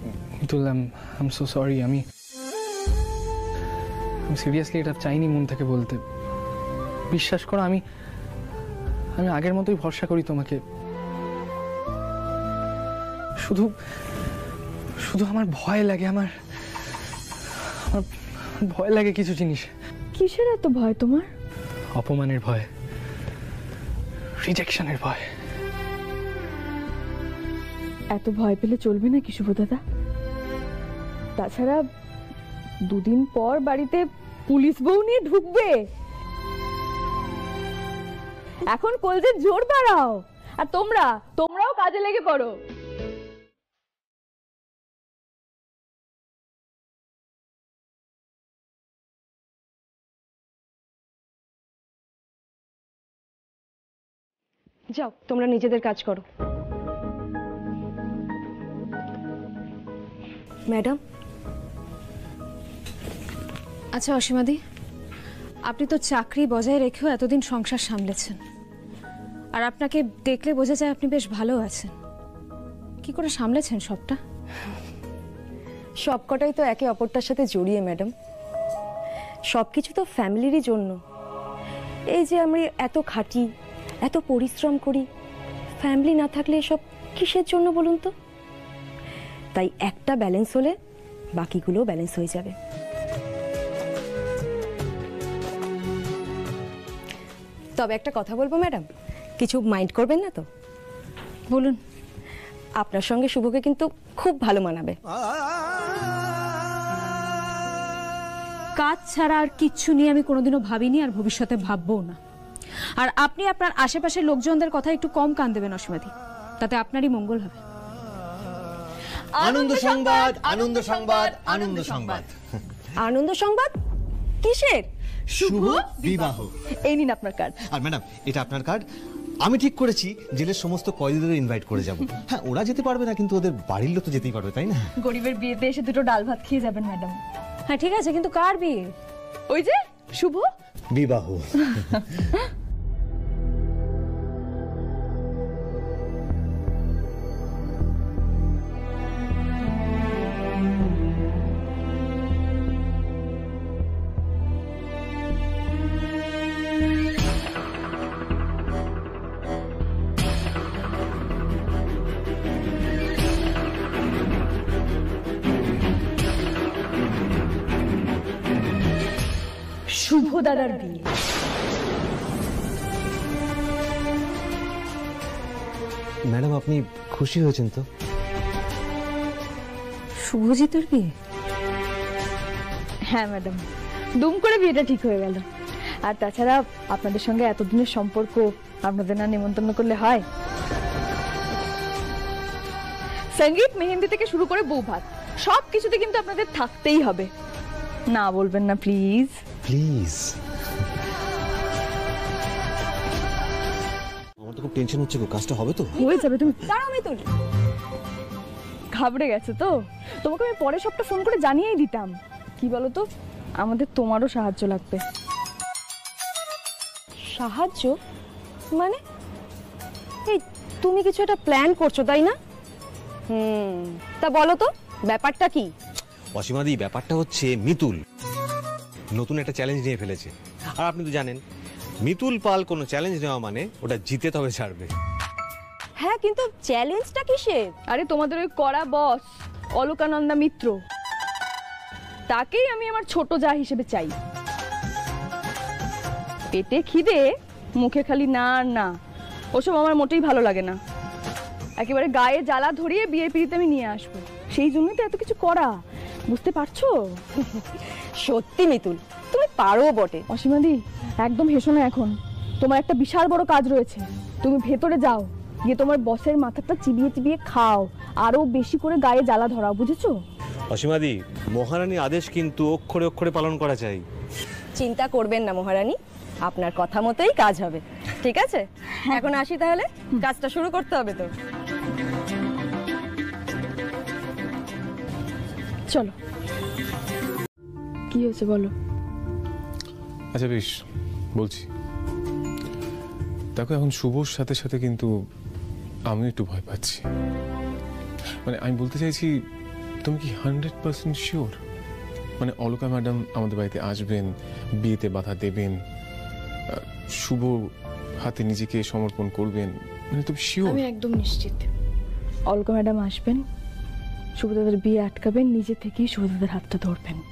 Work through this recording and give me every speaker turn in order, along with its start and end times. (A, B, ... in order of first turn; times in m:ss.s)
0:00.4-0:02.0 A
0:04.3-0:06.0 A
0:07.1-0:07.8 A
0:09.2-0:10.6 A
0:13.4-0:13.7 A
0:15.0-0:16.3 A
0:18.6-0:19.7 A
0:20.1-0:21.3 B
0:22.0-0:22.7 A
0:24.4-0:25.2 A
0:28.1-0:29.8 B
0:31.4-0:31.8 B
0:32.9-0:35.8 B
0:38.7-0:42.5 B
0:55.2-0:56.2 C
1:00.7-1:01.0 C
1:03.9-1:04.6 D
1:05.7-1:08.4 D
1:09.5-1:11.9 D
1:13.0-1:14.2 D
1:16.0-1:18.1 C
1:19.5-1:21.0 C
1:22.1-1:23.5 C
1:24.0-1:25.0 C
1:25.8-1:28.1 C
1:29.5-1:30.7 C
1:31.4-1:32.5 C
1:37.8-1:38.8 C
1:39.4-1:40.4 C
1:41.5-1:41.8 D
1:42.8-1:45.0 C
1:48.8-1:52.2 D
1:53.0-1:57.6 D
1:59.4-2:02.2 B
1:59.4-2:02.3 E
2:03.0-2:03.7 C
2:04.4-2:04.8 C
2:05.3-2:06.5 E
2:05.3-2:07.6 B
2:07.7-2:08.8 E
2:09.4-2:14.9 E
2:15.0-2:17.2 B
2:17.7-2:18.9 D
2:19.5-2:20.5 B
2:20.9-2:22.0 E
2:49.9-2:51.0 D
2:56.3-2:57.8 E
3:00.7-3:01.0 C
3:03.1-3:03.6 B
3:04.2-3:05.4 B
3:06.0-3:10.2 B
3:13.4-3:17.3 B
3:18.1-3:19.3 B
3:19.6-3:20.3 E
3:24.4-3:25.9 E
3:25.9-3:27.2 C
3:26.0-3:26.6 B
3:28.9-3:33.0 B
3:33.6-3:35.0 B
3:37.3-3:37.9 C
3:38.7-3:39.0 C
3:40.3-3:42.4 C
3:43.3-3:45.7 C
3:46.4-3:48.0 E
3:49.1-3:51.4 E
3:52.0-3:54.9 E
3:56.0-3:57.7 C
3:57.9-4:00.8 B
4:02.3-4:04.1 B
4:06.5-4:07.2 B
4:07.8-4:08.9 B
4:09.5-4:10.8 B
4:11.8-4:15.7 B
4:16.3-4:16.9 B
4:18.2-4:20.2 C
4:20.3-4:30.1 B
4:30.7-4:34.0 E
4:34.8-4:41.3 C
4:48.1-4:48.7 B
4:50.3-4:50.7 F
4:51.4-4:51.7 F
4:53.6-4:55.1 F
4:56.1-4:57.0 F
4:58.4-4:59.3 F
5:00.0-5:01.6 F
5:02.4-5:04.3 F
5:04.8-5:05.8 F
5:06.7-5:07.7 F
5:08.2-5:10.9 F
5:10.6-5:11.7 B
5:12.5-5:13.4 B
5:14.4-5:17.2 B